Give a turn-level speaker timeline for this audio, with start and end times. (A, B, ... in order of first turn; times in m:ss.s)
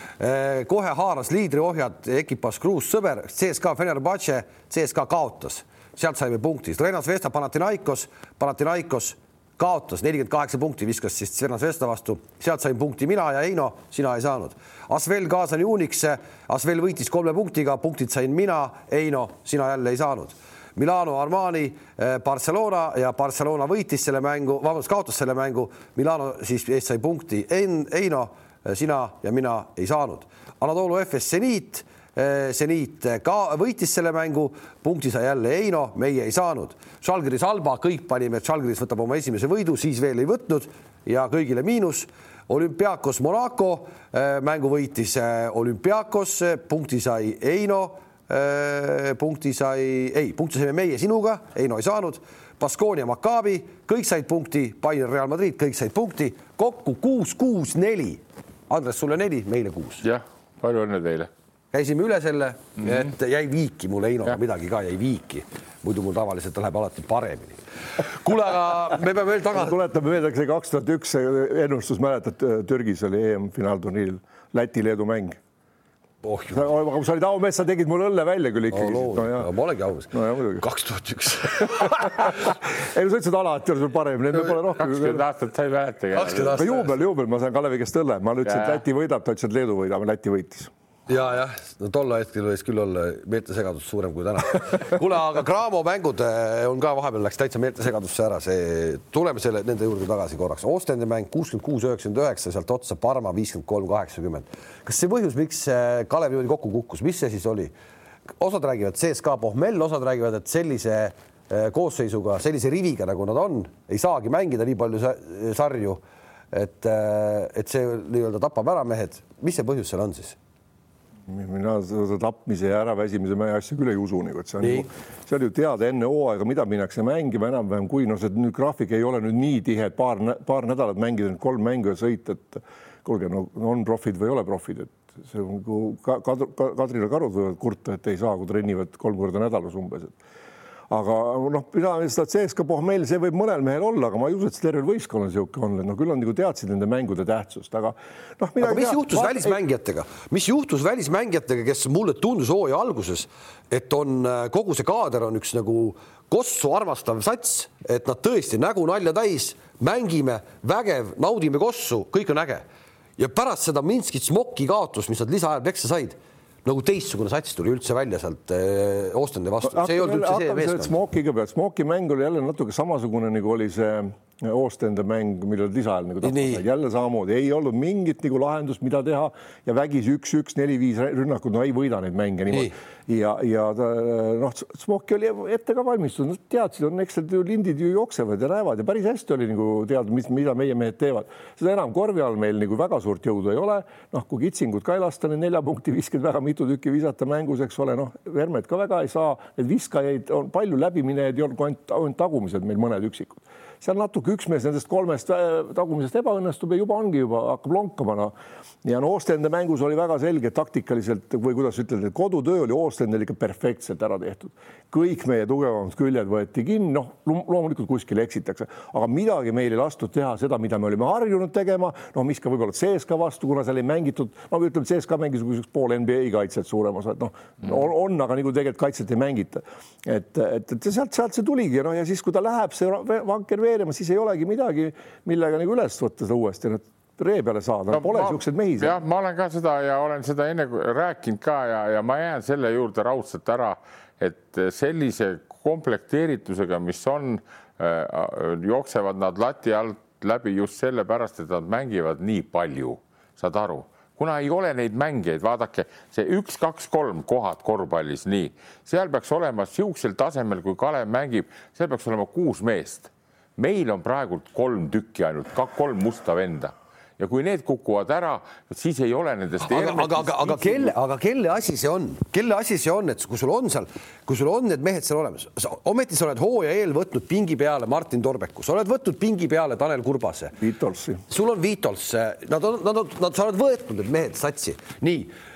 0:00.2-1:00.0 A
1:00.0-1:01.3 B
1:01.7-1:09.8 A
1:09.5-1:15.4 C
1:16.2-1:16.6 A
1:16.5-1:19.5 C
1:18.7-1:22.4 A
1:20.1-1:20.6 C
1:21.8-1:25.2 C
1:24.8-1:26.6 B
1:26.1-1:26.9 A
1:26.5-1:30.7 C
1:28.5-1:28.8 B
1:31.1-1:47.7 A
1:48.4-1:56.0 A
1:56.5-2:00.4 A
2:01.3-2:20.2 C
2:04.6-2:04.9 A
2:20.9-2:29.6 C
2:28.6-2:42.6 A
2:43.2-2:51.0 A
2:49.6-3:28.3 C
2:56.2-2:56.6 A
3:28.8-3:59.0 C
3:57.9-4:30.9 B
4:29.6-4:40.6 A
4:40.6-4:41.2 C
4:41.3-4:45.3 A